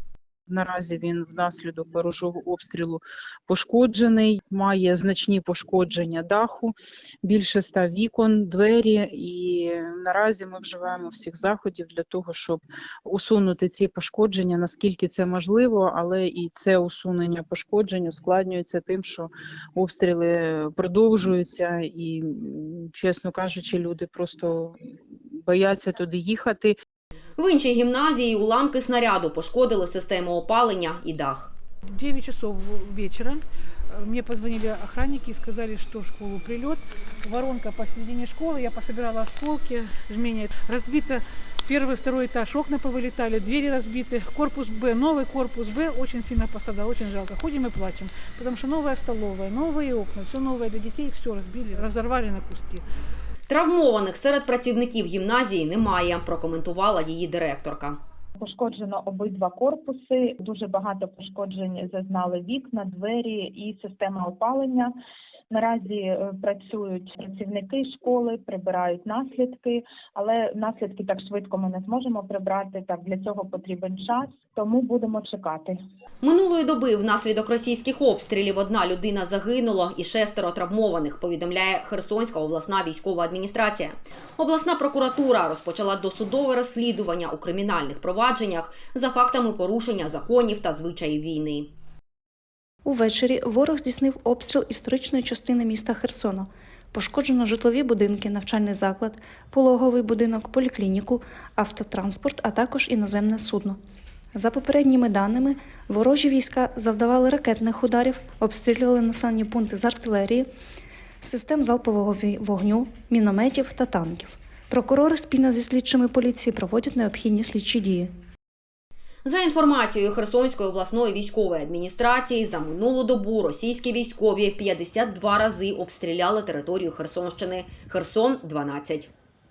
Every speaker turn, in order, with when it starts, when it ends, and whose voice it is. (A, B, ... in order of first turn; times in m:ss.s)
0:00.5-0:26.8 A
0:27.4-0:31.5 B
0:31.9-0:52.8 C
0:53.5-0:58.0 B
0:58.4-1:04.9 D
1:05.5-1:15.7 D
1:16.2-1:31.7 B
1:32.8-1:43.8 E
1:44.4-1:50.5 E
1:51.2-1:58.1 E
1:59.2-2:09.1 B